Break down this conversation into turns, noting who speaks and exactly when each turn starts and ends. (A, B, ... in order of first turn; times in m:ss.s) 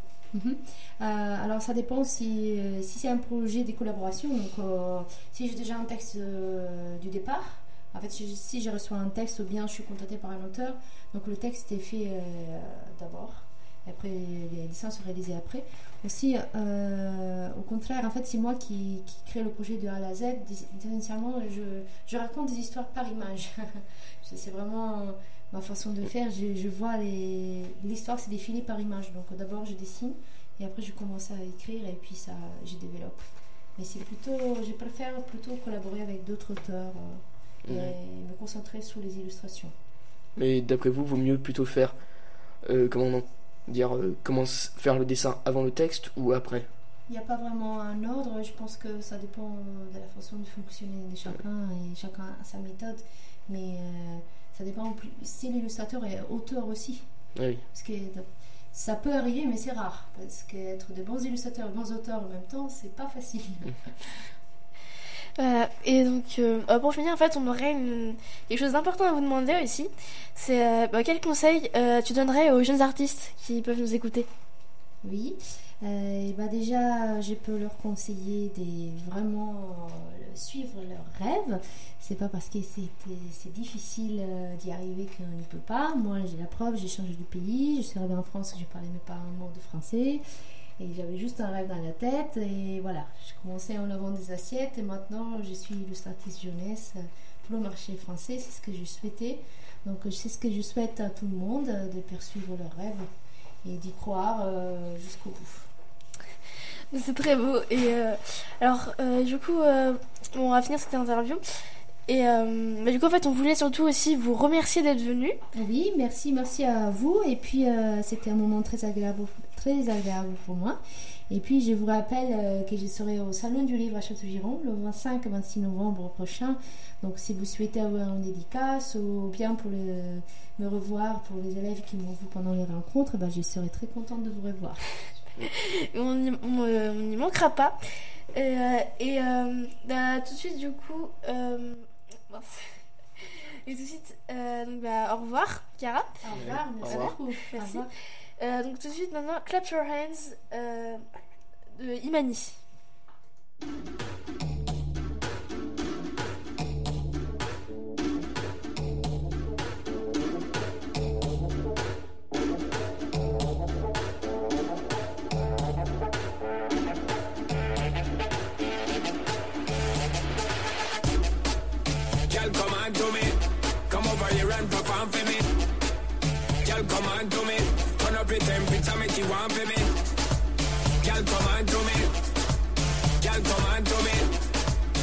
0:00.3-0:39.7 A
0:37.7-0:37.9 B
0:40.4-0:42.0 B
0:42.6-0:46.7 B
0:47.1-0:57.0 A
0:57.4-0:57.6 B
0:57.7-1:04.2 A
1:05.4-1:14.3 C
1:15.0-1:30.2 A
1:30.8-1:43.1 A
1:43.6-1:45.7 A
1:46.9-1:51.4 C
1:52.1-1:55.4 C
1:55.5-2:00.8 A
2:01.3-2:14.9 A
2:15.4-2:17.8 C
2:18.3-2:22.6 C
2:23.2-2:26.1 C
2:26.2-2:27.9 A
2:26.3-2:27.1 B
2:26.8-2:27.9 C
2:28.4-2:31.0 C
2:31.8-2:32.6 C
2:52.3-2:55.5 D
2:56.6-3:00.0 D
3:01.0-3:02.1 D
3:03.2-3:04.4 D